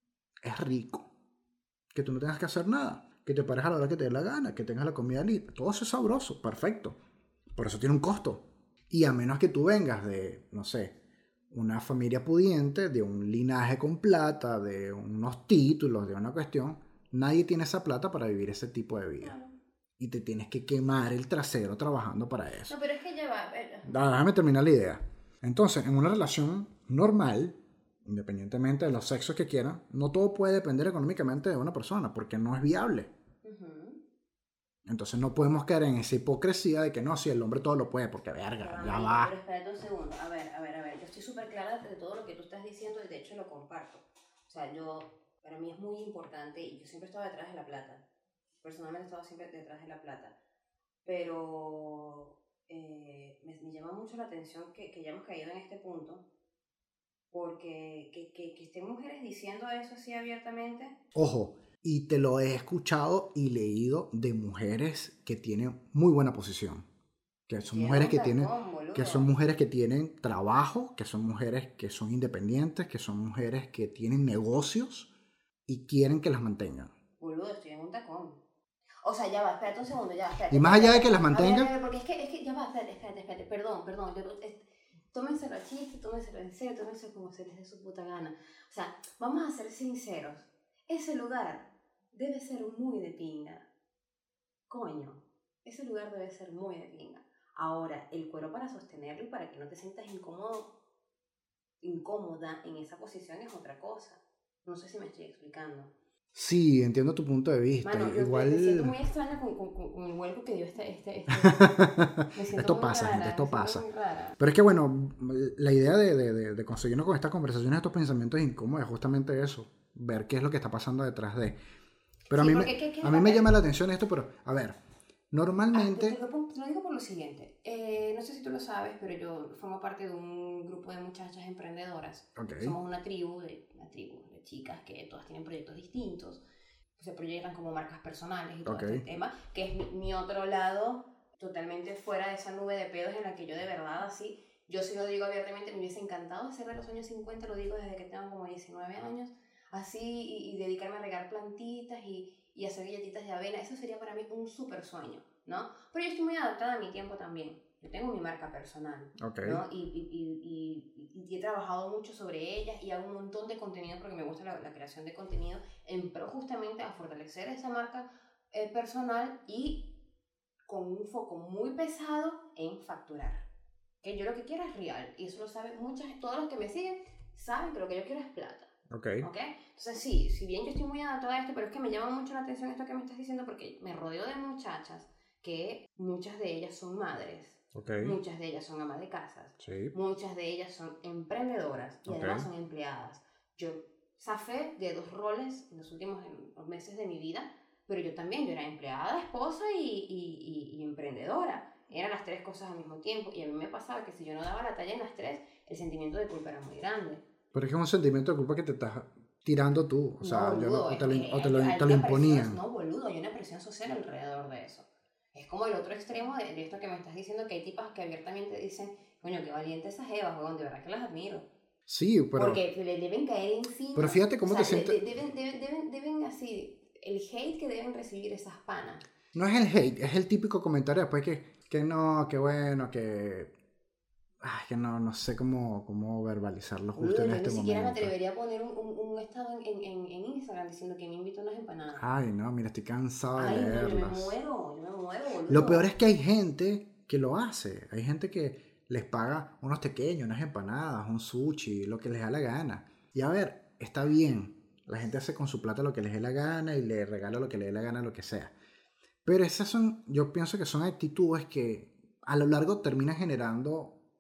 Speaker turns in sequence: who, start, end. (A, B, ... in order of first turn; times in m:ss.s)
0:00.4-0:01.1 A
0:01.9-0:07.0 A
0:07.6-0:11.0 A
0:11.5-0:19.3 A
0:19.2-0:19.6 B
0:20.0-0:22.7 A
0:22.7-0:24.0 B
0:23.8-0:33.1 A
0:33.4-0:34.0 B
0:34.9-0:39.3 A
0:38.6-0:48.0 B
0:48.6-0:50.4 B
0:51.0-0:56.2 B
0:57.3-1:01.0 B
1:01.2-1:06.9 A
1:07.5-1:15.1 A
1:07.7-1:09.3 B
1:15.7-1:16.9 A
1:17.2-1:18.4 B
1:19.0-1:33.7 B
1:20.5-1:21.7 A
1:34.7-1:40.7 B
1:41.8-1:45.9 B
1:46.3-1:49.0 A
1:47.8-1:54.4 B
1:51.4-1:53.8 A
1:54.4-2:01.6 A
2:02.3-2:04.8 A
2:02.3-2:03.5 B
2:05.3-2:06.2 A
2:05.7-2:16.4 B
2:12.4-2:12.8 A
2:17.0-2:49.9 B
2:18.6-2:19.0 A
2:39.2-2:39.6 A
2:50.7-2:53.5 B
2:54.0-2:58.7 B
2:58.9-2:59.3 A
2:59.2-3:27.2 B
3:07.8-3:08.2 A
3:09.6-3:09.9 A
3:12.1-3:12.5 A
3:27.5-3:32.6 A
3:30.2-3:41.5 B
3:41.9-3:42.6 A
3:42.4-3:49.0 B
3:44.0-3:45.0 A
3:49.3-3:53.5 A
3:54.4-3:58.1 A
3:57.0-4:02.1 B
4:02.0-4:04.4 A
4:03.4-4:05.9 B
4:05.5-4:18.5 A
4:19.2-4:24.0 A